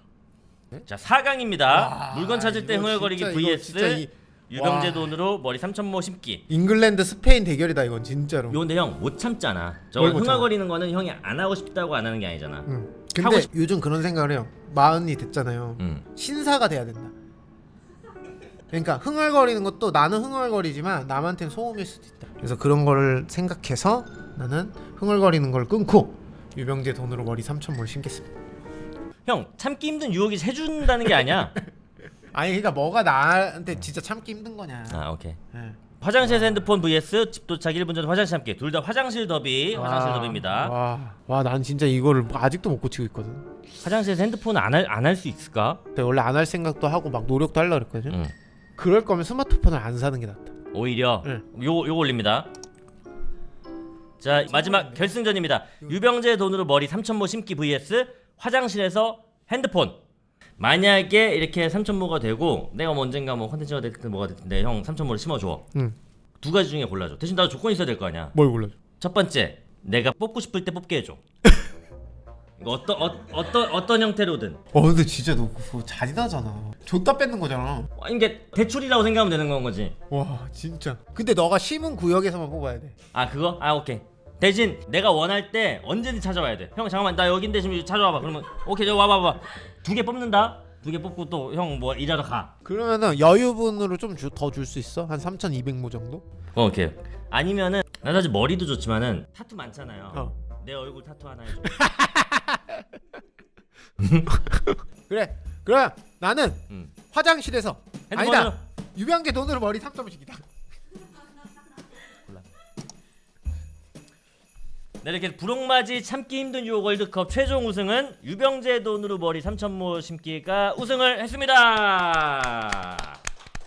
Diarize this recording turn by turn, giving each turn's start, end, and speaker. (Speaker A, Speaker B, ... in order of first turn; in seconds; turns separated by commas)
Speaker A: 0.9-6.4, Speaker B: 1.7-5.1, Speaker B: 6.5-8.6, Speaker A: 8.5-12.7, Speaker B: 10.0-10.5, Speaker B: 12.7-17.1, Speaker A: 13.2-13.5, Speaker B: 18.7-28.3, Speaker A: 29.2-31.6, Speaker B: 32.3-36.7, Speaker A: 34.9-35.4, Speaker A: 36.0-40.7, Speaker B: 39.7-43.5, Speaker A: 43.8-45.8, Speaker B: 45.9-48.2, Speaker B: 48.8-50.5, Speaker A: 50.7-52.5, Speaker A: 54.2-60.0, Speaker B: 54.3-55.2, Speaker A: 60.6-65.7, Speaker A: 66.4-68.3, Speaker B: 68.3-68.7, Speaker A: 69.0-71.2, Speaker A: 72.6-74.6, Speaker B: 74.7-77.9, Speaker A: 78.0-80.0, Speaker B: 80.1-82.9, Speaker A: 83.1-92.5, Speaker B: 92.6-96.2, Speaker A: 96.5-101.8, Speaker B: 101.6-102.8, Speaker A: 104.0-104.3, Speaker B: 104.2-110.4, Speaker A: 108.1-108.6, Speaker A: 115.0-123.2